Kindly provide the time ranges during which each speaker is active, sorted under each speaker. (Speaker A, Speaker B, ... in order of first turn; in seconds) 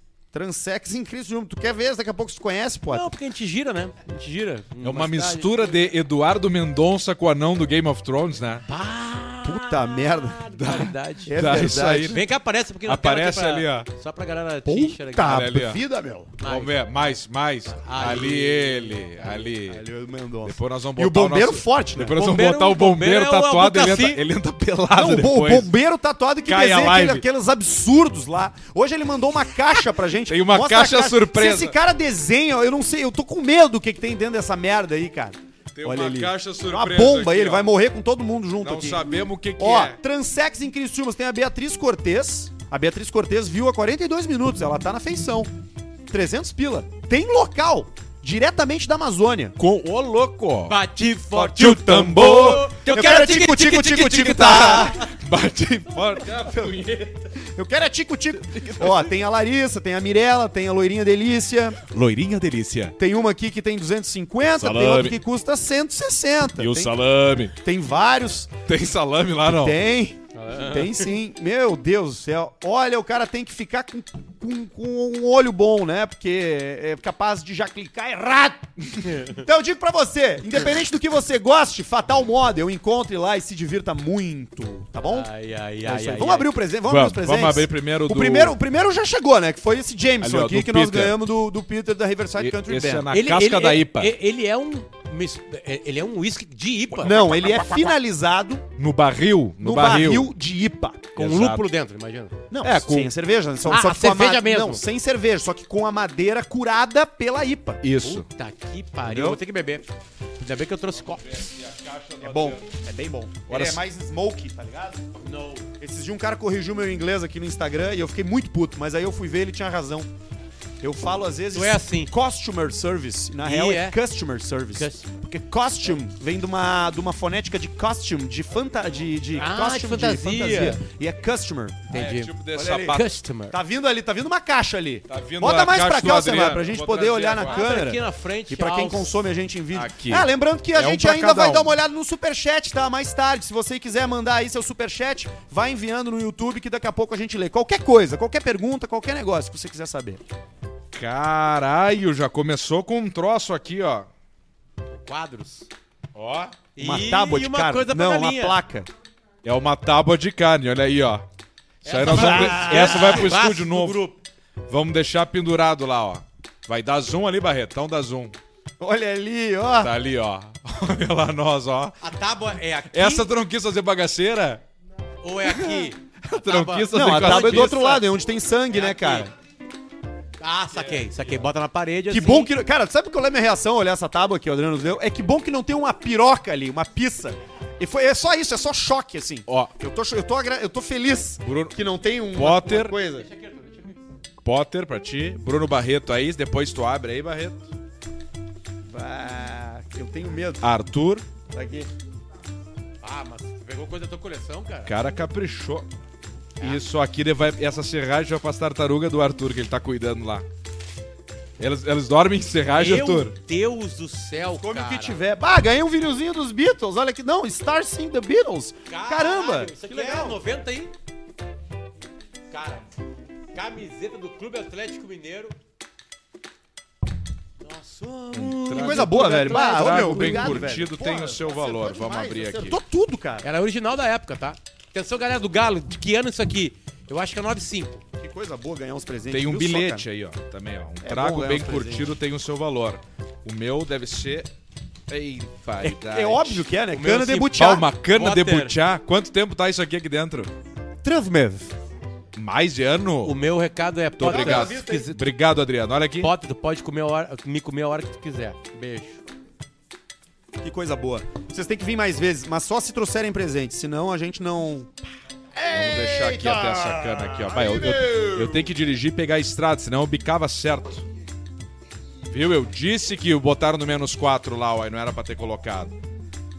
Speaker A: 0.3-3.1, 9.4-10.5, 11.3-12.2, 14.6-16.3, 19.6-22.2, 24.9-39.1, 39.6-45.5, 46.1-49.5, 51.6-55.0, 57.4-61.8, 63.0-66.9, 67.6-68.5, 69.5-78.7, 79.2-85.3, 85.8-93.1, 97.0-98.7, 99.6-101.1, 102.5-107.8, 109.0-109.4, 112.2-115.0, 115.8-120.1, 120.8-131.9, 132.5-133.0, 133.5-150.2, 156.8-158.9, 162.1-163.2, 168.8-169.9, 176.9-179.3, 182.1-193.3, 198.8-200.7, 201.5-201.9, 214.4-220.4, 228.7-233.4, 238.2-240.1, 241.0-242.1, 245.8-247.9, 251.0-251.7, 254.2-255.1, 260.6-264.9, 265.5-268.7
Speaker B: 2.9-5.8, 8.7-11.3, 12.0-15.4, 16.4-16.7, 17.7-19.5, 22.1-24.2, 50.7-55.0, 70.3-71.1, 79.0-79.4, 85.1-86.5, 93.1-97.2, 101.2-102.4, 103.7-104.8, 108.0-109.8, 110.4-111.5, 115.2-115.6, 121.5-122.1, 123.4-124.0, 124.7-125.2, 129.4-130.8, 131.9-133.6, 137.5-139.1, 154.9-155.7, 156.8-158.6, 161.8-164.2, 172.0-173.3, 175.2-178.1, 178.7-179.3, 180.4-182.5, 193.1-194.0, 203.0-204.9, 212.7-215.2, 218.9-220.9, 222.5-222.9, 223.5-225.5, 227.6-230.7, 233.4-238.0, 246.9-247.5, 248.1-248.8, 253.2-255.2, 256.2-259.2
Speaker C: 4.8-8.6, 10.5-12.2, 12.8-13.9, 15.2-15.8, 16.4-19.8, 20.4-25.7, 26.5-27.2, 30.3-31.7, 35.7-37.7, 38.6-40.0, 49.6-50.8, 51.3-57.3, 58.5-59.1, 61.8-62.9, 64.6-65.2, 66.6-67.5, 68.7-69.8, 86.8-88.6, 90.2-91.2, 92.4-94.1, 98.8-100.3, 101.2-101.6, 102.6-103.1, 107.8-108.2, 110.9-112.7, 113.5-113.8, 131.9-133.1, 135.1-137.7, 139.7-141.7, 150.9-154.1, 156.1-156.5, 159.4-161.2, 161.8-164.1, 164.7-168.3, 169.8-172.0, 172.9-174.6, 175.4-177.8, 180.7-181.4, 191.4-191.7, 192.3-192.9, 194.4-197.7, 200.6-201.2, 204.9-205.9, 206.6-210.4, 211.6-213.3, 228.3-232.8, 239.3-244.5, 245.1-246.7, 247.4-250.5, 252.3-253.4, 254.2-256.3, 265.7-271.0, 272.3-275.9